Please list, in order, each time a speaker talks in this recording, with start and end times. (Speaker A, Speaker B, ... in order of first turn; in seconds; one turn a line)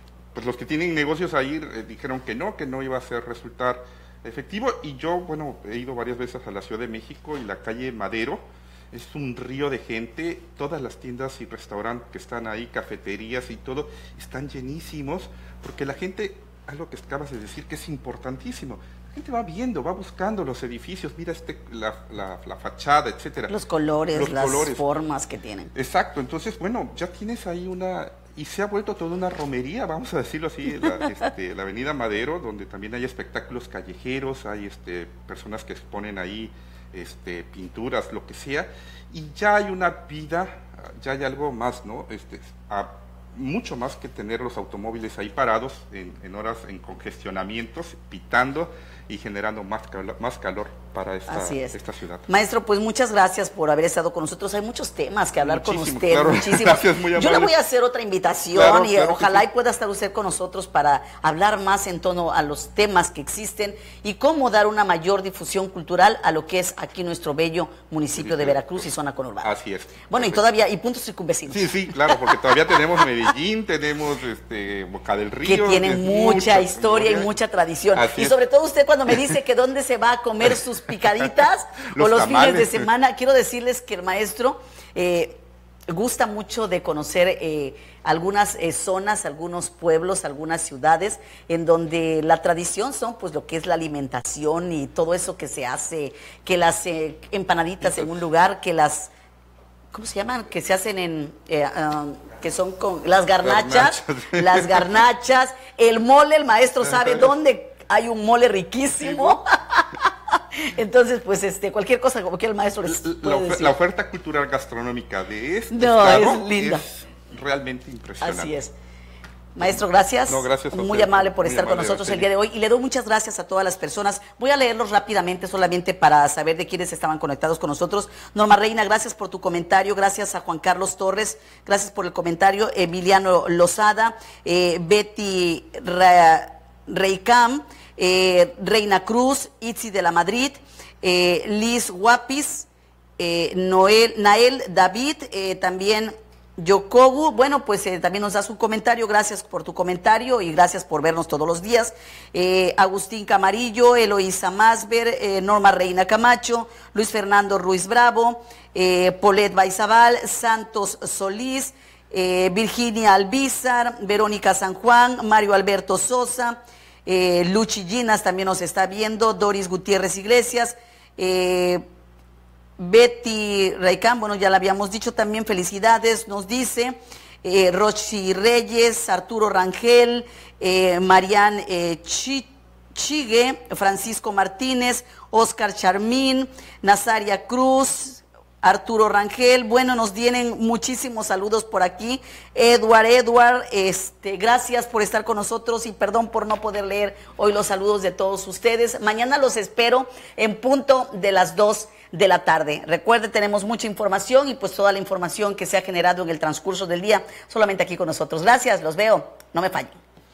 Speaker A: 0.3-23.5
Speaker B: 23.5-25.7
Speaker A: 24.1-24.8
Speaker A: 25.7-52.3
Speaker B: 51.3-69.5
Speaker A: 55.4-57.5
Speaker A: 58.5-59.5
Speaker A: 68.2-68.9
Speaker A: 69.4-70.4
Speaker B: 70.1-73.0
Speaker A: 71.5-77.3
Speaker B: 75.4-99.1
Speaker A: 77.9-78.4
Speaker A: 81.9-82.9
Speaker A: 97.8-98.2
Speaker B: 99.9-113.7
Speaker A: 103.4-105.0
Speaker A: 106.8-107.3
Speaker A: 109.0-109.4
Speaker A: 112.8-118.6
Speaker B: 115.7-116.8
Speaker B: 118.2-118.7
Speaker B: 119.5-171.8
Speaker A: 120.3-122.3
Speaker B: 172.8-210.0